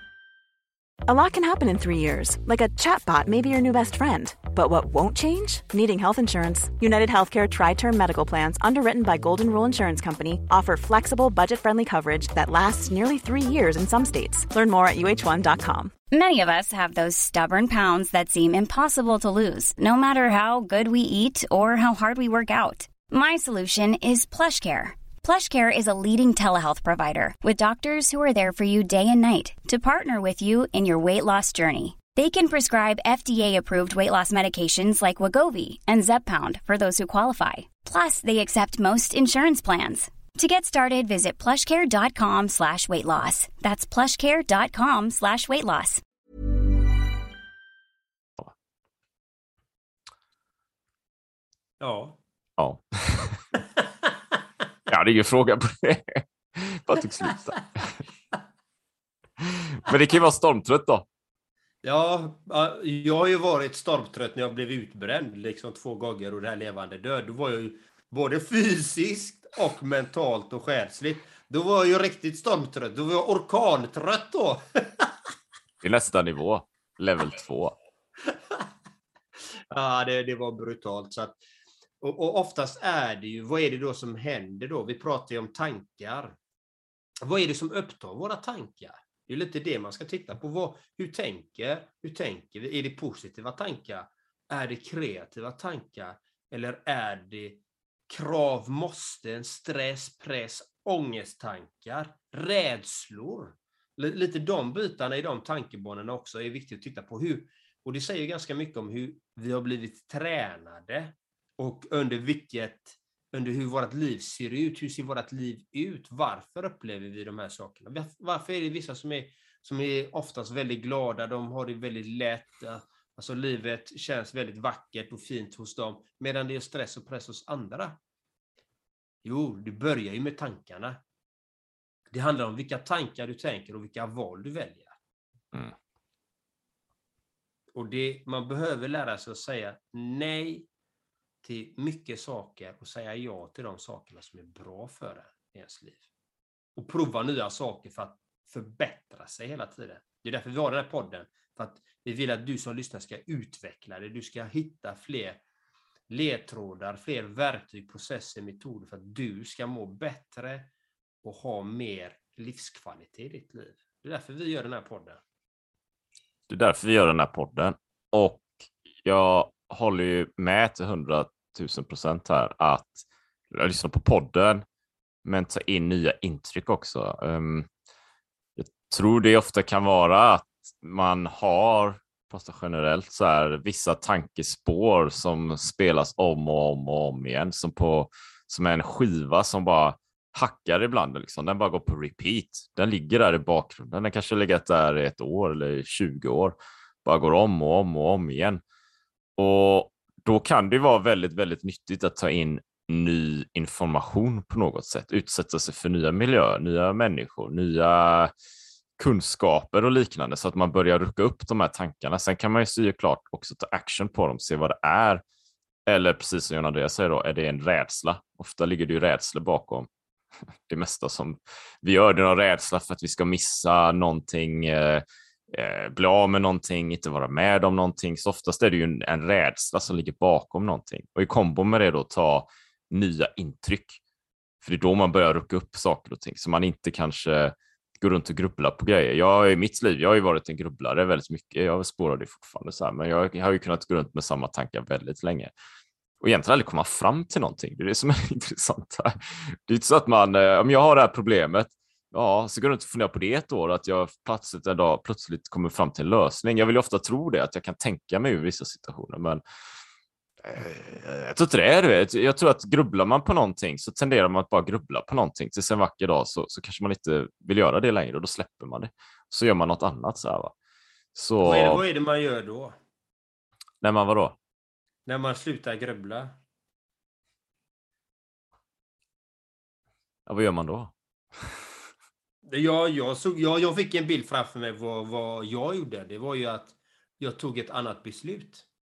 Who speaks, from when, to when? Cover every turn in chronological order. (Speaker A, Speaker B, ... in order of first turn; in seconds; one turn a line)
Speaker A: 1.1-15.9
Speaker B: 16.1-46.0
Speaker C: 51.8-52.2
Speaker D: 52.6-53.4
Speaker D: 54.9-57.9
Speaker D: 59.7-61.0
Speaker C: 61.8-75.1
Speaker D: 75.8-77.8
Speaker C: 79.7-81.4
Speaker C: 82.0-86.3
Speaker C: 87.2-128.0
Speaker C: 129.2-131.0
Speaker C: 132.1-135.0
Speaker C: 137.7-140.7
Speaker C: 141.4-146.0
Speaker C: 146.8-155.4
Speaker C: 156.1-160.7
Speaker C: 161.2-165.2
Speaker D: 166.5-174.6
Speaker D: 175.2-177.7
Speaker D: 178.6-198.6
Speaker D: 199.4-208.3
Speaker D: 209.0-215.2
Speaker D: 215.9-219.9
Speaker D: 220.7-234.0
Speaker D: 234.6-245.5
Speaker D: 246.2-259.4
Speaker D: 260.4-270.5
Speaker D: 271.1-271.8
Speaker C: 271.4-272.8
Speaker D: 273.8-274.4
Speaker C: 275.1-276.3
Speaker D: 280.3-281.6
Speaker C: 282.5-288.6